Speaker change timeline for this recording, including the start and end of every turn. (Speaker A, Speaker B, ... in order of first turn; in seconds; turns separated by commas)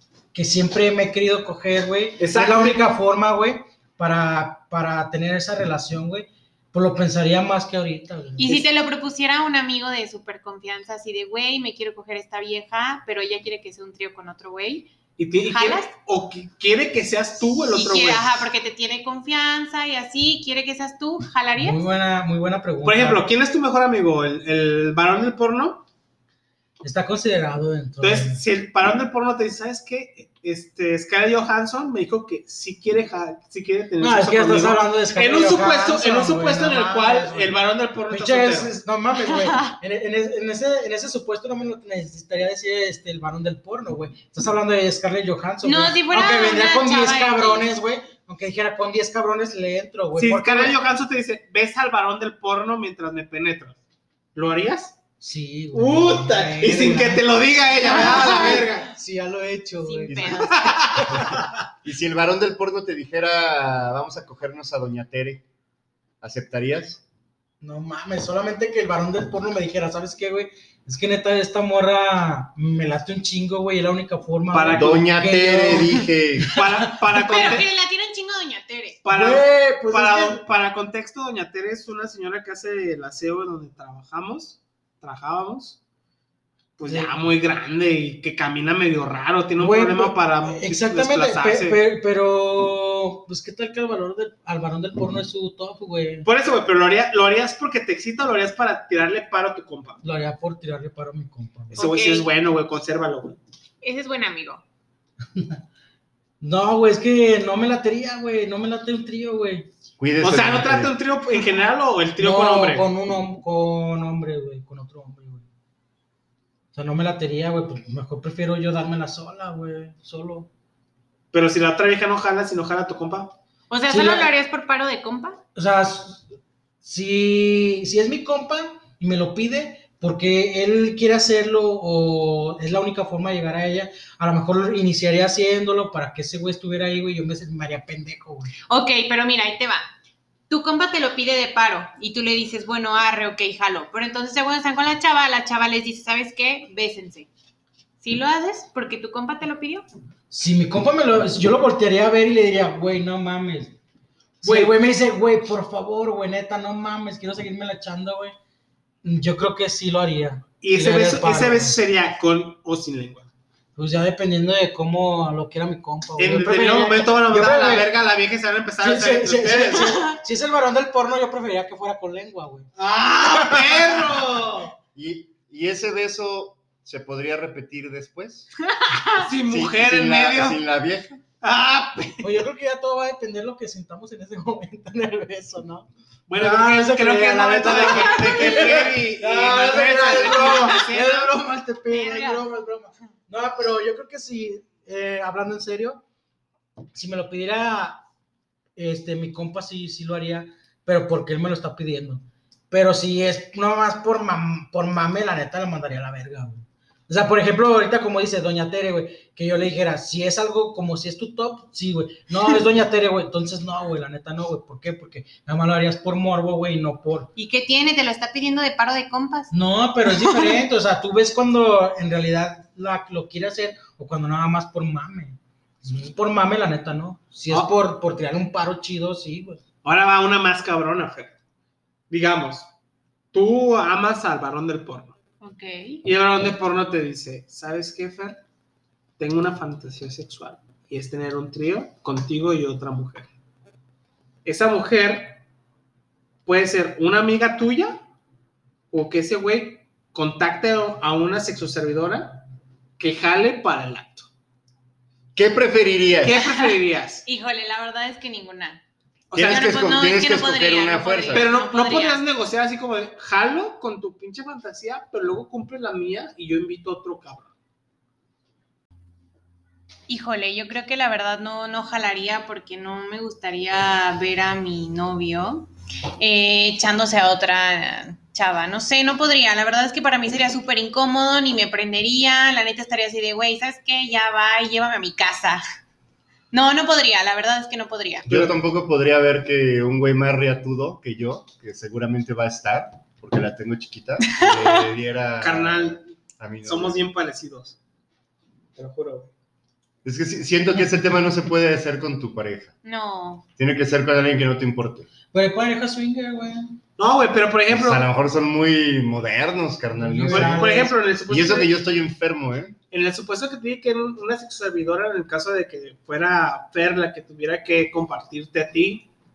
Speaker A: 0.3-8.7, Speaker B: 2.2-2.9, Speaker C: 8.4-14.9, Speaker B: 15.2-18.5, Speaker C: 15.4-15.9, Speaker C: 17.7-21.8, Speaker A: 21.6-23.2, Speaker B: 22.8-25.9, Speaker A: 26.8-28.4, Speaker B: 28.0-38.8, Speaker A: 34.0-37.5, Speaker A: 38.1-50.8, Speaker C: 39.2-39.8, Speaker C: 45.6-47.7, Speaker B: 50.2-53.8, Speaker B: 54.4-55.0, Speaker A: 55.2-57.3, Speaker B: 55.7-58.9, Speaker A: 57.9-61.5, Speaker C: 59.8-60.6, Speaker D: 60.1-65.4, Speaker B: 60.5-61.1, Speaker D: 66.2-67.0, Speaker A: 67.6-76.6, Speaker B: 74.5-75.0, Speaker D: 74.7-76.6, Speaker B: 76.5-77.7, Speaker A: 77.1-77.5, Speaker C: 77.2-79.0, Speaker B: 79.0-85.8, Speaker A: 79.1-80.4, Speaker B: 86.8-91.8, Speaker A: 86.9-87.2, Speaker A: 89.6-96.3, Speaker B: 96.2-100.0, Speaker A: 100.0-101.8, Speaker B: 101.7-103.4, Speaker C: 101.8-102.3, Speaker C: 103.8-104.6, Speaker A: 105.3-105.6, Speaker A: 106.4-109.7, Speaker D: 110.0-110.9, Speaker B: 110.2-112.9, Speaker A: 112.2-115.5, Speaker A: 116.7-120.5, Speaker B: 121.3-123.3, Speaker C: 123.7-125.4, Speaker A: 123.9-124.3, Speaker A: 125.5-126.3, Speaker A: 126.8-138.5, Speaker C: 138.7-139.9, Speaker C: 140.5-147.3, Speaker C: 148.0-149.9, Speaker A: 150.3-153.8, Speaker A: 154.4-158.3, Speaker B: 154.4-154.7, Speaker A: 159.0-161.8, Speaker B: 160.6-163.3, Speaker A: 163.8-167.9, Speaker B: 166.2-170.0, Speaker A: 168.8-172.7, Speaker B: 172.8-174.7, Speaker D: 174.9-178.5, Speaker C: 178.6-179.3, Speaker B: 179.2-180.6, Speaker D: 179.4-181.2, Speaker B: 181.4-182.3, Speaker A: 182.2-196.0, Speaker B: 186.3-191.3, Speaker C: 187.8-188.7, Speaker C: 190.5-190.8, Speaker C: 191.9-192.5, Speaker A: 196.9-198.0, Speaker A: 198.8-217.3, Speaker C: 217.4-219.5, Speaker A: 219.5-229.6, Speaker C: 220.1-220.6, Speaker B: 229.8-231.3, Speaker B: 232.1-232.7, Speaker B: 233.3-235.2, Speaker C: 235.4-236.0, Speaker B: 236.1-238.4, Speaker B: 239.2-243.3, Speaker B: 244.4-245.4, Speaker B: 246.5-248.0, Speaker B: 248.9-252.4, Speaker B: 253.0-254.3, Speaker D: 255.3-256.4, Speaker B: 256.2-257.2, Speaker C: 257.2-258.8, Speaker B: 259.3-259.6, Speaker D: 259.4-261.5, Speaker C: 259.4-262.2, Speaker B: 261.3-267.5, Speaker C: 270.1-275.7, Speaker C: 276.2-285.6, Speaker C: 286.5-288.3, Speaker D: 288.3-297.0, Speaker C: 294.2-294.9, Speaker B: 295.4-296.1, Speaker B: 296.6-297.8, Speaker B: 298.8-299.3, Speaker D: 300.1-302.8, Speaker C: 302.8-303.5, Speaker D: 303.6-305.1, Speaker A: 305.3-306.8, Speaker B: 307.0-308.0, Speaker D: 307.7-312.8, Speaker A: 309.9-311.0, Speaker B: 310.3-311.7, Speaker B: 312.9-319.1